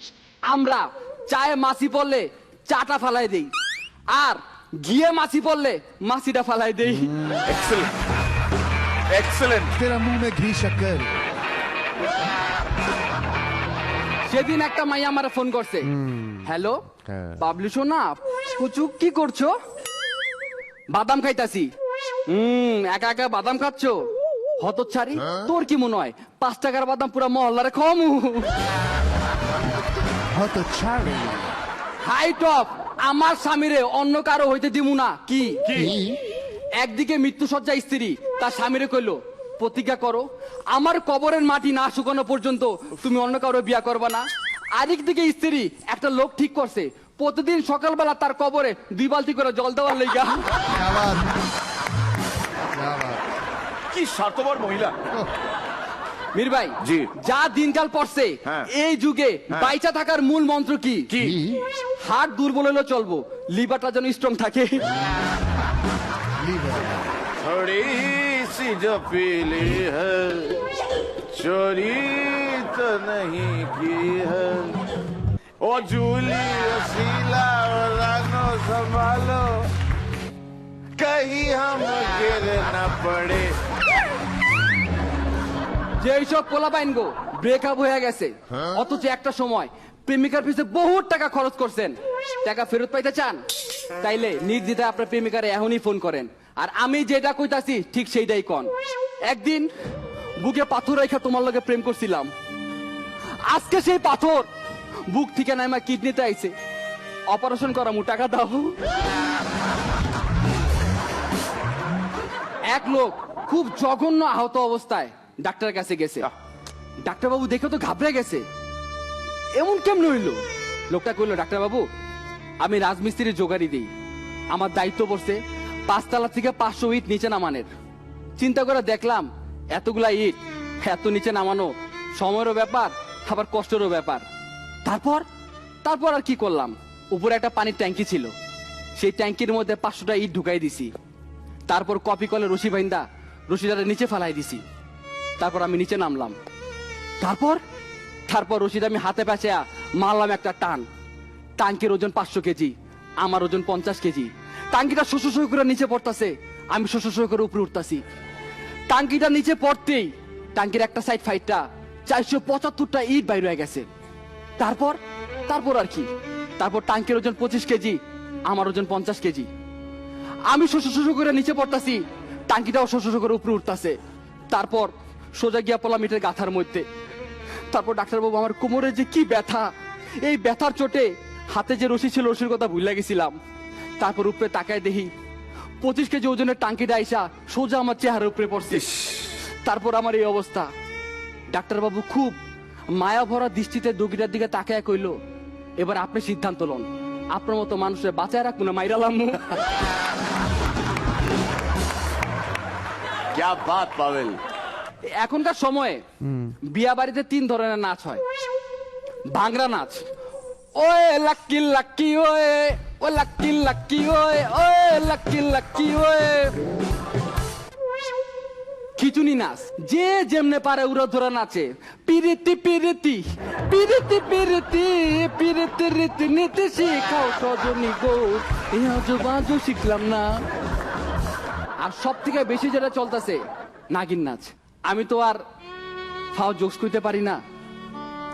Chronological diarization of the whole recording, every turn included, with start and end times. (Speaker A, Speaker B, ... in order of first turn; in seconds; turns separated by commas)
Speaker A: 0.4-3.5, Speaker A: 4.1-7.2, Speaker B: 7.4-7.9, Speaker B: 9.1-9.7, Speaker C: 9.7-11.2, Speaker A: 14.2-19.6, Speaker A: 20.9-21.7, Speaker A: 22.3-28.5, Speaker C: 30.3-31.5, Speaker A: 32.0-35.9, Speaker B: 35.7-36.0, Speaker C: 35.9-36.1, Speaker A: 36.7-50.5, Speaker C: 50.7-51.3, Speaker C: 52.7-53.2, Speaker B: 53.9-55.2, Speaker A: 56.3-61.1, Speaker B: 56.8-57.1, Speaker B: 61.1-61.6, Speaker A: 62.0-64.9, Speaker C: 66.4-67.0, Speaker B: 67.4-70.6, Speaker B: 71.3-74.8, Speaker B: 75.6-79.7, Speaker B: 81.0-83.6, Speaker A: 86.0-93.4, Speaker A: 94.0-98.7, Speaker A: 99.3-99.7, Speaker A: 100.4-102.3, Speaker A: 103.4-104.5, Speaker A: 105.1-106.5, Speaker A: 107.3-108.8, Speaker A: 112.7-116.3, Speaker A: 117.0-118.4, Speaker A: 119.5-121.9, Speaker A: 122.6-123.9, Speaker A: 124.5-127.7, Speaker A: 128.4-134.2, Speaker A: 134.8-135.2, Speaker A: 135.8-138.3, Speaker A: 138.9-140.9, Speaker A: 141.7-144.6, Speaker A: 145.4-146.4, Speaker A: 147.2-147.6, Speaker A: 148.3-150.8, Speaker A: 151.6-158.0, Speaker A: 158.9-163.8, Speaker A: 164.6-169.5, Speaker A: 170.5-174.0, Speaker A: 174.5-176.8, Speaker A: 177.7-179.7, Speaker A: 180.2-183.4, Speaker A: 184.0-185.1, Speaker A: 185.8-190.7, Speaker A: 191.5-192.4, Speaker A: 192.9-195.2, Speaker A: 195.8-199.6, Speaker B: 203.3-204.4, Speaker A: 205.0-208.2, Speaker A: 209.3-210.1, Speaker A: 210.7-216.6, Speaker A: 219.0-230.4, Speaker A: 231.8-235.4, Speaker A: 236.3-237.4